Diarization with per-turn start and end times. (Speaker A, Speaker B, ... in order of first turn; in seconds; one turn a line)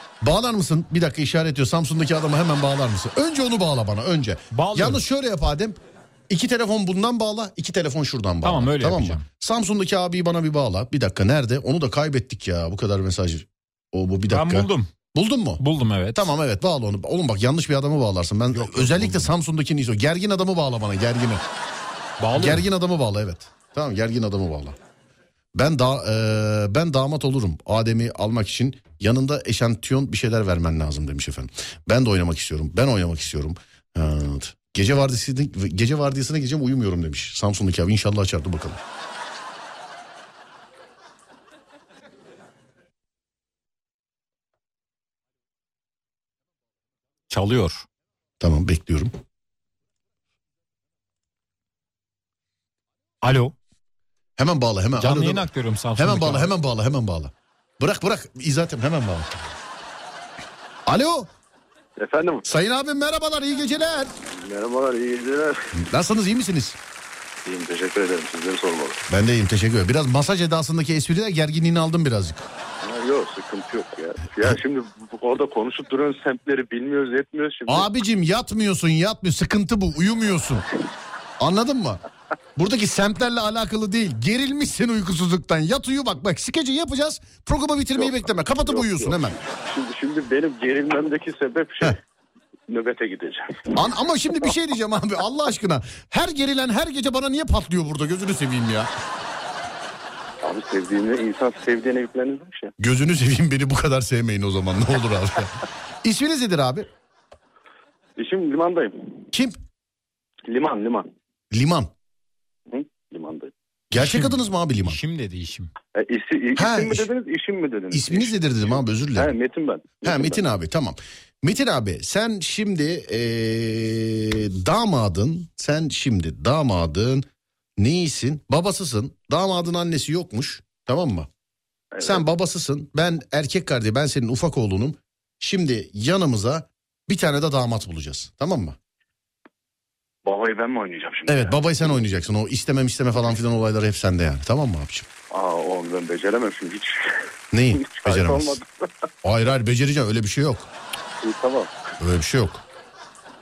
Speaker A: 0.2-15.6
Speaker B: 4.5-5.0
Speaker B: 8.4-9.3
Speaker B: 14.3-14.9
Speaker B: 15.6-16.3
Speaker A: 16.1-21.4
Speaker B: 18.5-19.3
Speaker B: 22.2-22.7
Speaker A: 22.3-24.8
Speaker A: 25.6-38.8
Speaker B: 47.3-47.9
Speaker A: 48.4-49.1
Speaker B: 53.2-53.5
Speaker A: 54.4-59.5
Speaker B: 55.0-56.5
Speaker A: 60.9-61.3
Speaker C: 62.0-62.5
Speaker A: 62.5-64.2
Speaker C: 64.3-65.7
Speaker A: 65.7-66.8
Speaker C: 67.5-69.0
Speaker A: 69.1-72.5
Speaker C: 72.8-77.9
Speaker A: 77.7-80.7
Speaker A: 81.4-82.0
Speaker A: 82.6-89.4
Speaker C: 88.0-92.0
Speaker C: 92.7-93.8
Speaker A: 93.8-98.9
Speaker C: 100.4-102.7
Speaker A: 102.8-106.9
Speaker C: 108.2-109.2
Speaker A: 109.3-109.6
Speaker C: 110.5-111.1
Speaker A: 111.5-111.9
Speaker C: 112.7-113.5
Speaker A: 113.9-115.0
Speaker B: 114.0-115.7
Speaker C: 116.0-118.3
Speaker A: 116.6-117.1
Speaker A: 117.9-119.3
Speaker C: 119.2-120.4
Speaker A: 120.0-127.3
Speaker A: 127.8-131.3
Speaker C: 131.9-132.2
Speaker A: 132.0-138.8
Speaker C: 140.2-141.7
Speaker A: 141.3-145.1
Speaker C: 145.3-147.2
Speaker A: 147.5-148.6
Speaker C: 147.7-148.9
Speaker A: 149.2-150.7
Speaker C: 151.2-151.7
Speaker A: 152.0-152.6